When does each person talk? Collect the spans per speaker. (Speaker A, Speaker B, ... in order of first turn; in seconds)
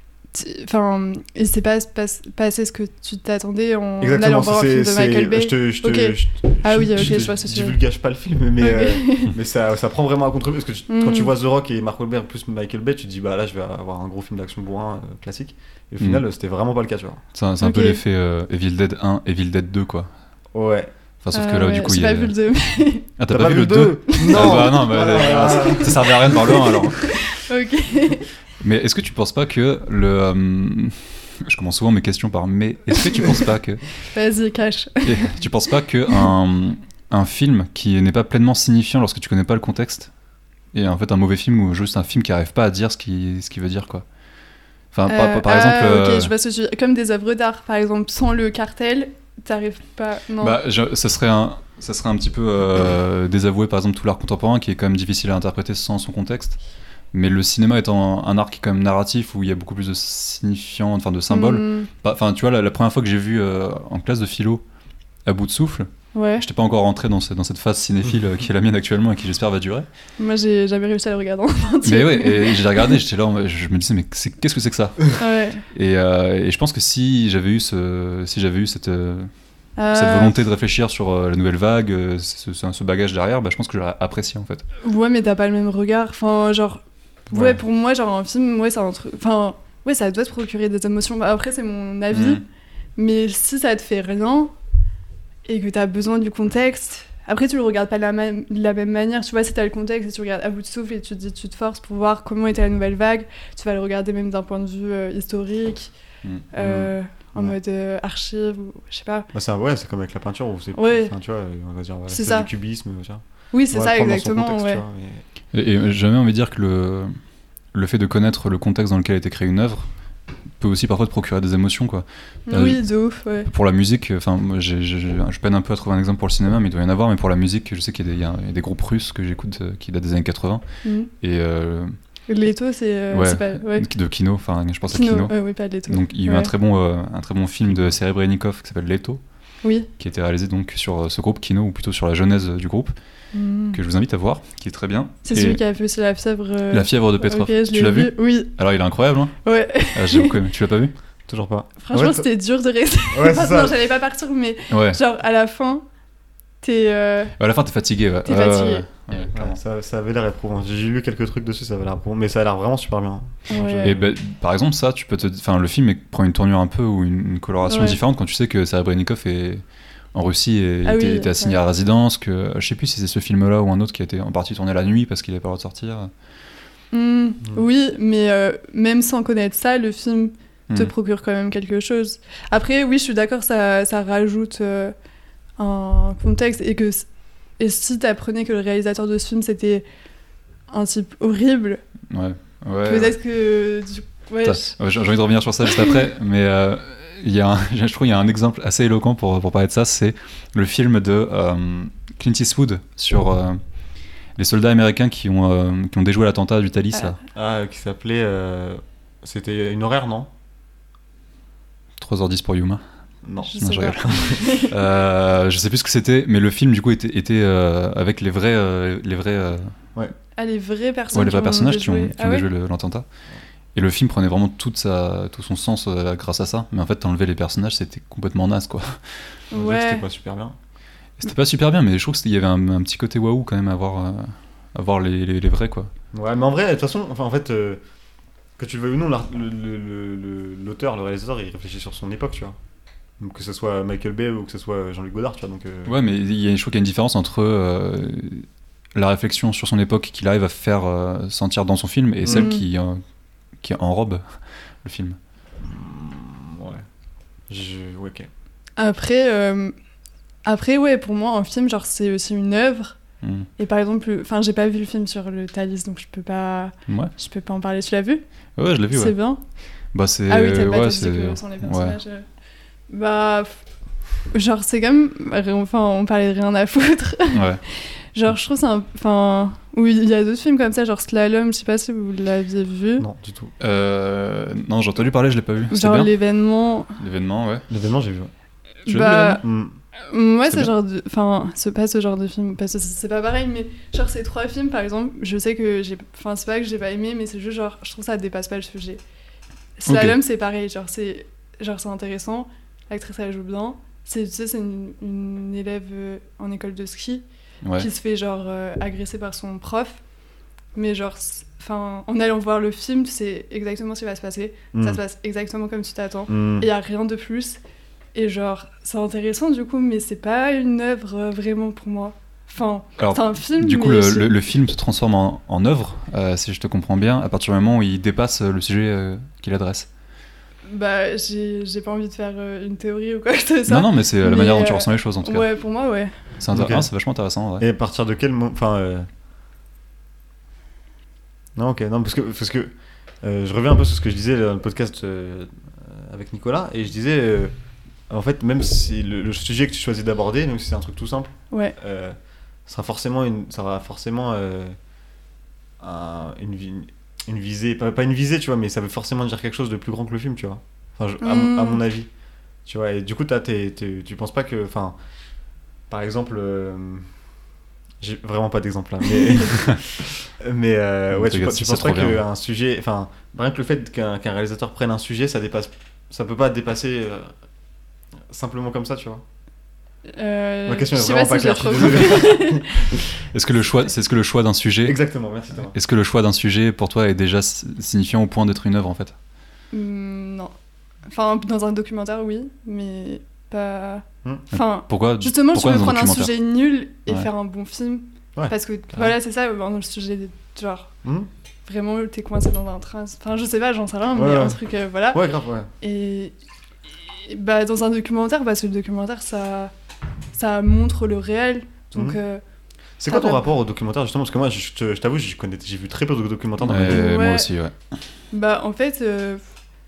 Speaker A: 0.3-7.8, 8.6-9.3, 10.9-11.3, 17.6-18.0, 21.3-23.1, 24.1-24.8, 25.5-25.8, 27.2-28.3, 33.1-33.4, 34.0-35.3, 45.1-50.6, 61.3-61.9, 66.1-66.5, 70.2-73.0, 75.2-75.6, 79.8-80.3, 84.8-92.4, 93.0-94.5, 95.5-105.9, 106.5-109.3, 110.8-111.1, 112.1-112.5, 113.5-114.8, 122.5-123.5, 130.8-131.1, 132.3-133.9, 134.9-136.5, 139.6-139.9, 143.3-143.8, 145.2-148.5, 149.4-150.4, 151.8-155.8, 156.6-157.3, 158.2-158.8, 163.5-164.0, 167.7-168.0, 170.8-171.6, 176.9-184.9, 185.6-187.0, 187.6-189.8, 190.7-191.8, 192.8-194.8, 213.4-214.8, 220.3-222.5, 229.5-230.0, 252.3-252.6, 258.8-259.7, 260.4-263.0, 263.6-268.2, 268.9-269.4, 270.3-272.2, 272.9-273.6, 274.3-283.0, 285.7-286.9, 288.8-289.4, 290.1-299.0, 299.8-307.2, 307.8-310.0, 310.7-317.6, 318.1-324.4, 330.7-336.1, 361.2-361.8, 380.1-382.9, 389.7-390.5, 391.1-400.9, 401.6-405.2, 405.8-406.3, 407.1-409.7, 410.3-412.4, 413.0-413.4, 416.9-417.5, 418.3-419.4
Speaker B: 4.0-17.2, 20.5-20.9, 23.3-26.7, 106.6-107.5, 109.3-115.2, 151.3-152.2, 153.1-153.8, 159.3-164.0, 207.3-210.3, 213.2-213.5, 214.0-214.4, 229.5-230.5, 236.1-237.8, 238.6-242.6, 243.2-245.9, 252.2-252.5, 255.6-256.8, 257.5-258.3, 283.0-283.5, 287.7-288.3, 289.1-289.8, 314.7-315.0, 316.3-316.7, 336.5-336.9, 337.6-339.1, 341.6-347.5, 348.1-354.8, 355.8-362.1, 362.6-364.9, 365.9-367.1, 368.0-377.3, 378.3-379.2, 380.7-383.0, 384.9-385.7, 398.4-399.1, 404.1-404.6, 405.1-405.7, 413.0-417.1
Speaker C: 17.3-20.1, 21.2-22.3, 23.1-27.0, 28.6-33.8, 35.0-40.1, 40.7-44.0, 44.9-46.3, 50.4-56.6, 57.1-64.6, 65.2-69.9, 71.8-75.1, 75.7-79.3, 79.9-84.6, 92.1-92.4, 115.5-117.2, 117.7-119.9, 120.6-122.8, 123.5-130.6, 131.2-131.9, 133.1-135.3, 135.9-139.2, 140.0-142.9, 143.7-145.6, 146.7-149.4, 149.9-150.9, 154.7-155.0, 157.4-159.6, 163.8-176.1, 192.1-193.1, 194.4-203.6, 204.3-207.2, 212.0-212.8, 213.6-219.8, 221.1-223.1, 223.7-229.3, 231.2-235.9, 245.8-253.0, 253.6-255.2, 263.2-263.5, 266.9-267.1, 268.6-269.1, 269.9-272.0, 277.3-277.6, 283.6-286.1, 287.0-287.7, 288.9-289.4, 299.9-300.2, 323.0-329.9, 333.7-335.5, 336.4-337.7, 371.1-372.2, 383.3-385.0, 385.7-389.1, 394.5-396.3, 416.6-417.7